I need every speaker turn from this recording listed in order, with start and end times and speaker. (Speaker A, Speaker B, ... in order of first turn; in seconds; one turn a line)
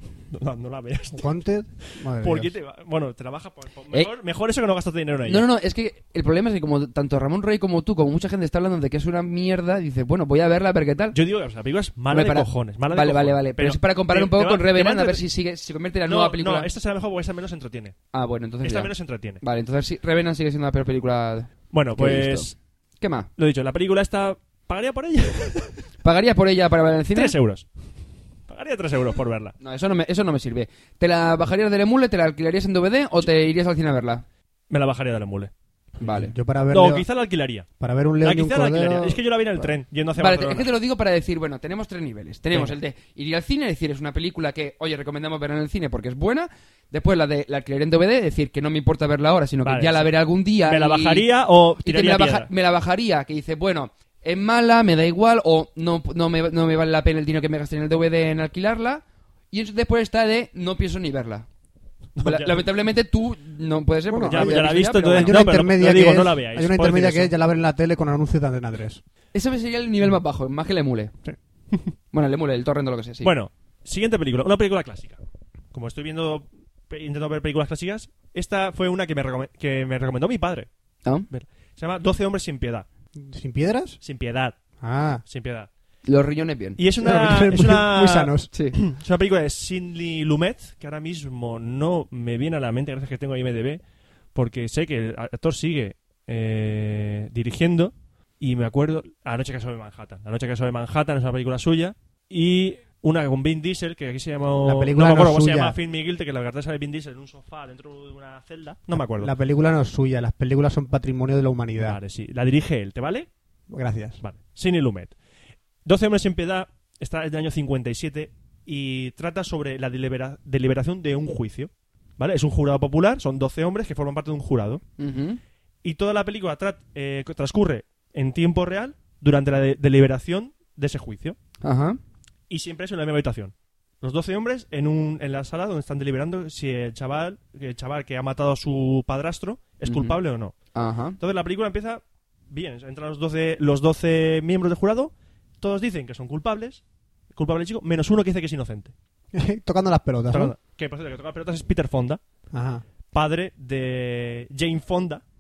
Speaker A: 0.3-1.3
Speaker B: 1.1-2.5
Speaker A: 1.9-5.5
Speaker C: 5.3-11.2
Speaker A: 11.1-15.2
Speaker C: 12.1-16.7
Speaker A: 16.1-18.0
Speaker C: 18.1-23.3
Speaker A: 18.6-19.4
Speaker A: 21.7-22.6
Speaker A: 23.4-25.8
Speaker C: 26.0-27.4
Speaker A: 27.1-27.7
Speaker A: 28.5-29.5
Speaker C: 29.6-34.2
Speaker A: 34.7-35.5
Speaker B: 36.0-37.1
Speaker C: 36.0-36.3
Speaker A: 36.7-37.7
Speaker B: 37.8-39.7
Speaker A: 38.2-40.7
Speaker C: 40.2-51.3
Speaker A: 49.6-50.1
Speaker A: 50.6-52.5
Speaker C: 51.8-61.5
Speaker A: 62.2-62.7
Speaker C: 62.2-65.4
Speaker B: 64.1-69.0
Speaker A: 64.2-67.3
Speaker C: 69.3-71.1
Speaker C: 72.1-73.3
Speaker A: 73.2-75.2
Speaker A: 75.7-80.7
Speaker A: 81.3-82.8
Speaker B: 83.2-84.0
Speaker A: 84.0-84.6
Speaker B: 84.8-85.2
Speaker A: 85.3-85.7
Speaker C: 86.0-86.8
Speaker A: 86.8-93.8
Speaker B: 87.0-88.5
Speaker A: 94.3-109.3
Speaker B: 104.6-105.8
Speaker B: 108.9-112.0
Speaker A: 111.8-113.3
Speaker B: 113.7-114.2
Speaker A: 114.2-115.2
Speaker A: 115.8-124.8
Speaker C: 125.0-125.4
Speaker A: 125.8-131.4
Speaker C: 131.6-132.0
Speaker A: 132.5-140.7
Speaker C: 139.9-140.2
Speaker C: 140.7-141.2
Speaker A: 141.2-146.8
Speaker A: 147.3-148.9
Speaker B: 149.3-150.6
Speaker A: 150.3-152.2
Speaker B: 152.5-152.8
Speaker A: 153.1-155.2